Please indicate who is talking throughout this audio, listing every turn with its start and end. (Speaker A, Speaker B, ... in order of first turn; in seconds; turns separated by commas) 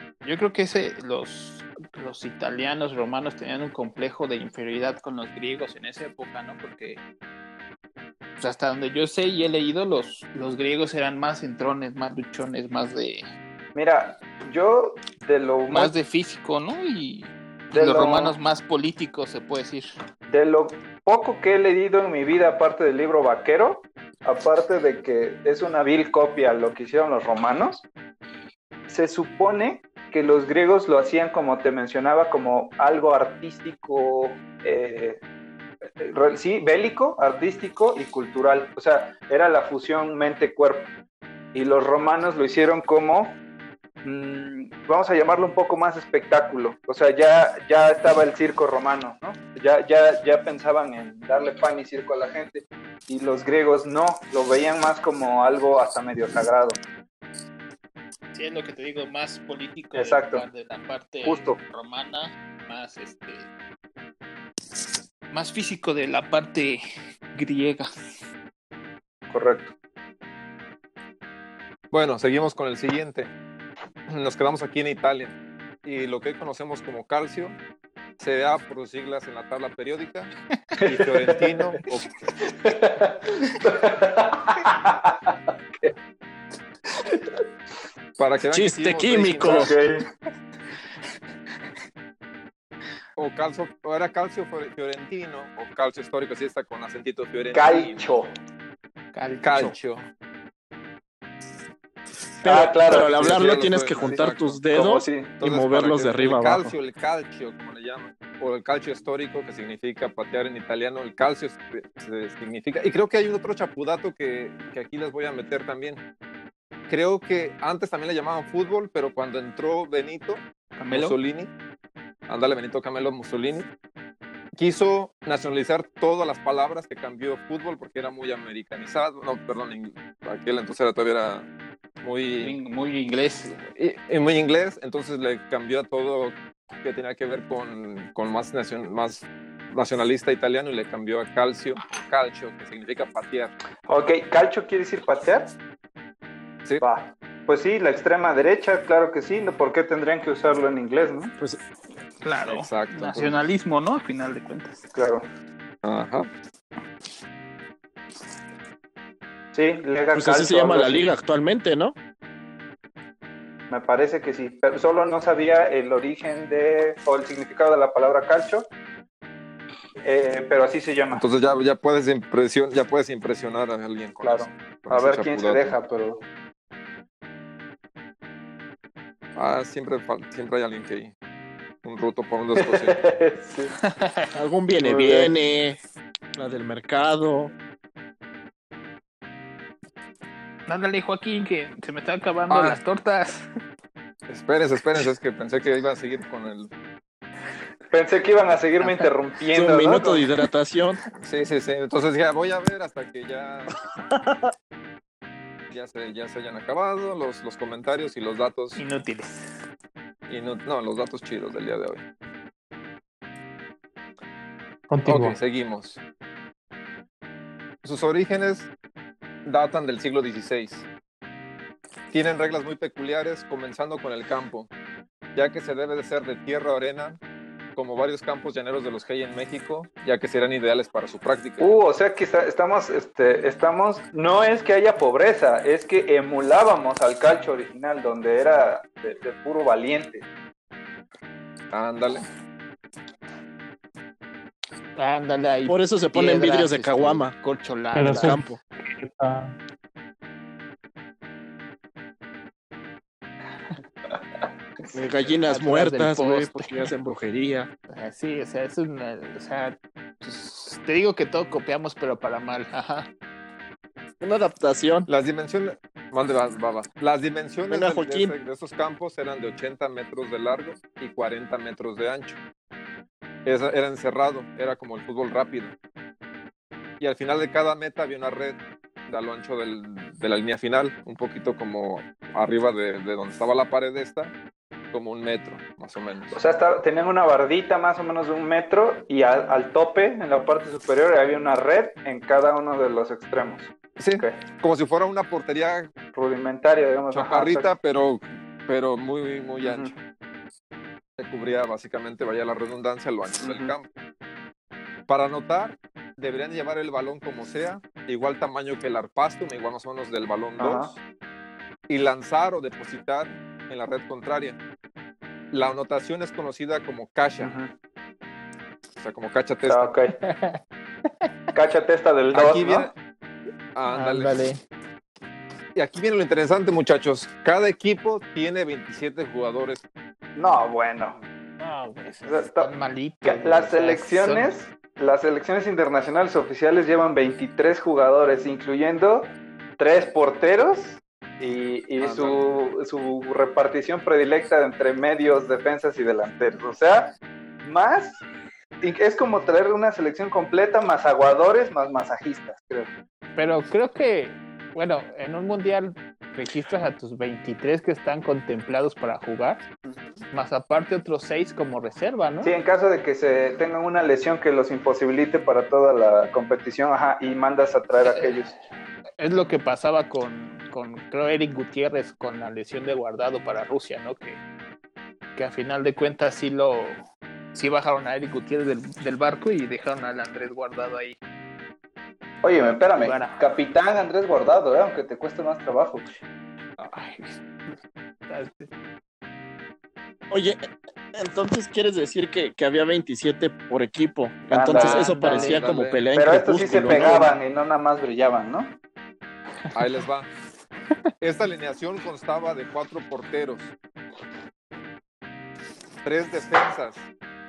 Speaker A: 0.2-7.0, Speaker A: 8.4-13.2, Speaker B: 13.7-15.9, Speaker A: 15.7-19.9, Speaker B: 17.7-18.4, Speaker B: 20.3-27.9, Speaker B: 28.9-35.2, Speaker B: 36.0-40.9, Speaker B: 41.5-43.4, Speaker B: 44.0-56.8, Speaker A: 58.3-63.5, Speaker B: 59.9-60.4, Speaker B: 61.2-61.6, Speaker A: 65.3-66.8, Speaker A: 67.3-67.9, Speaker B: 69.3-69.7, Speaker C: 71.9-73.3, Speaker C: 74.1-77.6, Speaker C: 78.2-82.1, Speaker B: 80.8-81.7, Speaker B: 82.5-85.9, Speaker C: 88.2-89.8, Speaker D: 88.5-89.7, Speaker B: 89.4-90.0, Speaker C: 93.2-98.1, Speaker B: 97.5-98.3, Speaker A: 99.1-99.8, Speaker C: 99.4-100.1, Speaker D: 102.4-106.7, Speaker B: 102.4-103.4, Speaker C: 103.0-104.6, Speaker B: 104.0-105.3, Speaker C: 105.4-116.0, Speaker C: 116.9-121.5, Speaker A: 120.8-121.2, Speaker C: 122.3-123.7, Speaker C: 124.5-131.5, Speaker C: 132.0-132.6, Speaker A: 132.4-133.6, Speaker C: 133.7-143.5, Speaker B: 143.9-145.6, Speaker B: 146.8-151.3, Speaker A: 152.2-154.8, Speaker C: 152.4-153.4, Speaker B: 154.9-155.2, Speaker C: 155.8-156.3, Speaker B: 159.5-161.1, Speaker D: 160.1-161.9, Speaker B: 163.7-168.7, Speaker B: 170.0-171.2, Speaker C: 171.1-175.8, Speaker B: 174.2-176.2, Speaker C: 179.3-181.1, Speaker C: 181.8-183.0, Speaker B: 182.6-183.7, Speaker A: 183.8-184.3, Speaker D: 184.3-185.8, Speaker B: 184.8-185.3, Speaker D: 186.3-187.5, Speaker A: 190.7-193.4, Speaker C: 192.5-192.8, Speaker C: 194.3-196.7, Speaker B: 197.9-200.3, Speaker A: 198.8-199.1, Speaker D: 199.5-201.0, Speaker C: 201.2-203.8, Speaker C: 205.7-208.8, Speaker A: 208.8-209.5, Speaker C: 210.3-212.0, Speaker E: 214.9-215.4, Speaker C: 215.1-216.0, Speaker C: 217.8-218.7, Speaker C: 219.4-220.8, Speaker C: 222.1-224.7, Speaker C: 225.3-227.2, Speaker C: 227.8-231.7, Speaker B: 231.6-240.2, Speaker C: 241.7-242.2, Speaker A: 244.9-248.4, Speaker D: 245.7-247.3, Speaker E: 247.9-249.5, Speaker D: 248.1-248.6, Speaker D: 254.9-257.7, Speaker A: 255.4-256.9, Speaker A: 257.9-263.1, Speaker D: 264.2-265.1, Speaker C: 265.1-272.4, Speaker D: 267.7-268.3, Speaker C: 273.4-275.7, Speaker C: 277.0-278.6, Speaker C: 279.1-284.3, Speaker C: 284.9-286.3, Speaker B: 286.3-294.4, Speaker C: 294.0-295.9, Speaker B: 296.1-297.7, Speaker C: 297.1-300.0, Speaker B: 299.6-299.9, Speaker C: 301.2-303.9, Speaker B: 303.4-303.7, Speaker C: 305.1-310.9, Speaker B: 310.6-310.9, Speaker C: 311.9-314.6, Speaker C: 315.5-317.5, Speaker B: 317.4-317.7, Speaker C: 319.0-319.9, Speaker B: 319.6-320.1, Speaker A: 320.1-321.3, Speaker B: 321.5-322.9, Speaker C: 322.3-322.9, Speaker C: 323.7-324.4, Speaker A: 323.9-324.6, Speaker C: 325.7-329.8, Speaker B: 330.4-331.2, Speaker A: 331.6-334.5, Speaker B: 332.2-347.1, Speaker C: 342.0-342.4, Speaker B: 347.6-348.2, Speaker B: 348.8-352.9, Speaker A: 353.4-359.6, Speaker A: 360.3-362.5, Speaker B: 362.4-368.5, Speaker A: 368.0-368.4, Speaker A: 369.2-374.4, Speaker A: 375.3-377.0, Speaker A: 377.5-381.2, Speaker B: 382.4-386.0, Speaker A: 382.9-383.4, Speaker A: 386.8-387.8, Speaker A: 388.3-388.7, Speaker D: 390.3-390.6, Speaker D: 391.1-397.3, Speaker B: 394.5-395.4, Speaker A: 394.7-395.6, Speaker C: 395.3-396.0, Speaker B: 396.1-398.8, Speaker C: 399.7-400.3, Speaker C: 401.2-403.7, Speaker C: 406.0-407.1